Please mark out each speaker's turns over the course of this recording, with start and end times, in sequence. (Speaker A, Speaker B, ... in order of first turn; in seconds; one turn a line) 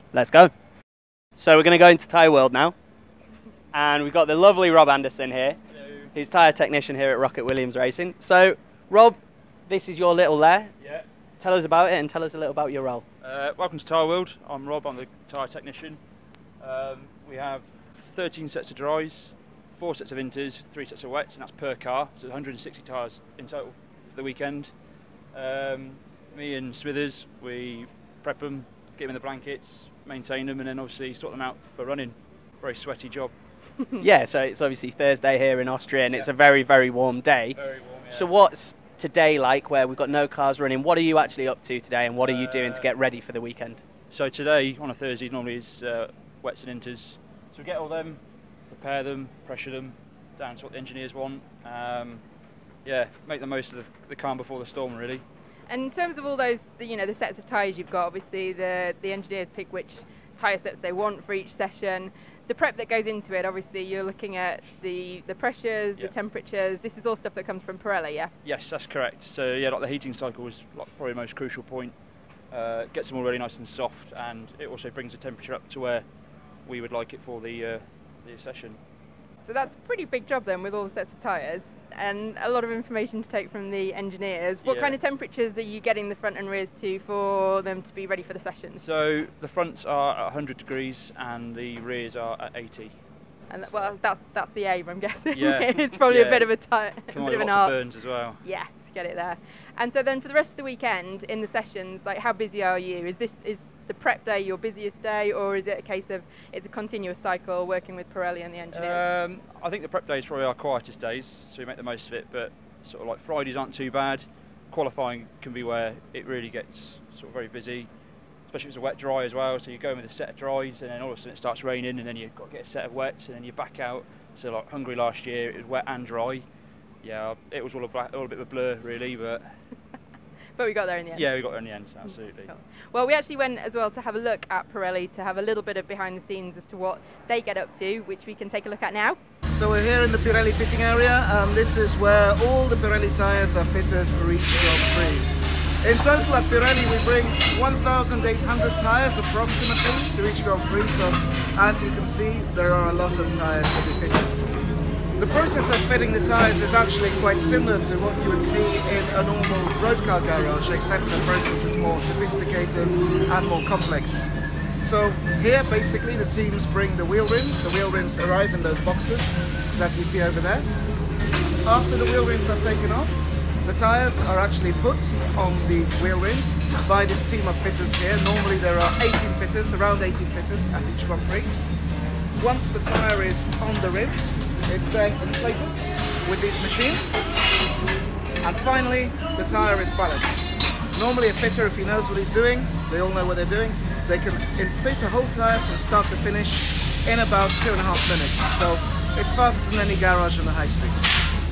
Speaker A: 0.1-0.5
Speaker A: 1.4-2.8
Speaker A: 3.7-5.6
Speaker B: 5.7-6.1
Speaker A: 6.1-10.7
Speaker B: 10.8-11.1
Speaker A: 11.4-13.0
Speaker B: 13.2-16.0
Speaker B: 16.6-24.7
Speaker B: 25.3-33.3
Speaker C: 33.8-34.0
Speaker A: 34.0-37.6
Speaker B: 37.5-38.3
Speaker A: 38.1-43.8
Speaker B: 42.2-42.9
Speaker B: 44.1-52.2
Speaker B: 52.9-55.2
Speaker C: 55.7-68.3
Speaker B: 68.4-71.9
Speaker B: 72.5-76.0
Speaker B: 76.7-78.8
Speaker C: 79.4-88.8
Speaker B: 84.6-85.0
Speaker B: 88.8-93.0
Speaker C: 93.5-97.8
Speaker B: 93.7-94.0
Speaker B: 95.3-98.4
Speaker C: 98.4-109.0
Speaker B: 108.7-117.9
Speaker B: 118.5-126.5
Speaker B: 127.0-129.5
Speaker C: 130.6-131.3
Speaker B: 131.1-132.5
Speaker C: 132.5-139.2
Speaker D: 139.5-145.3
Speaker D: 145.8-154.4
Speaker D: 155.2-170.7
Speaker D: 171.6-181.6
Speaker D: 182.4-187.2
Speaker D: 188.4-201.1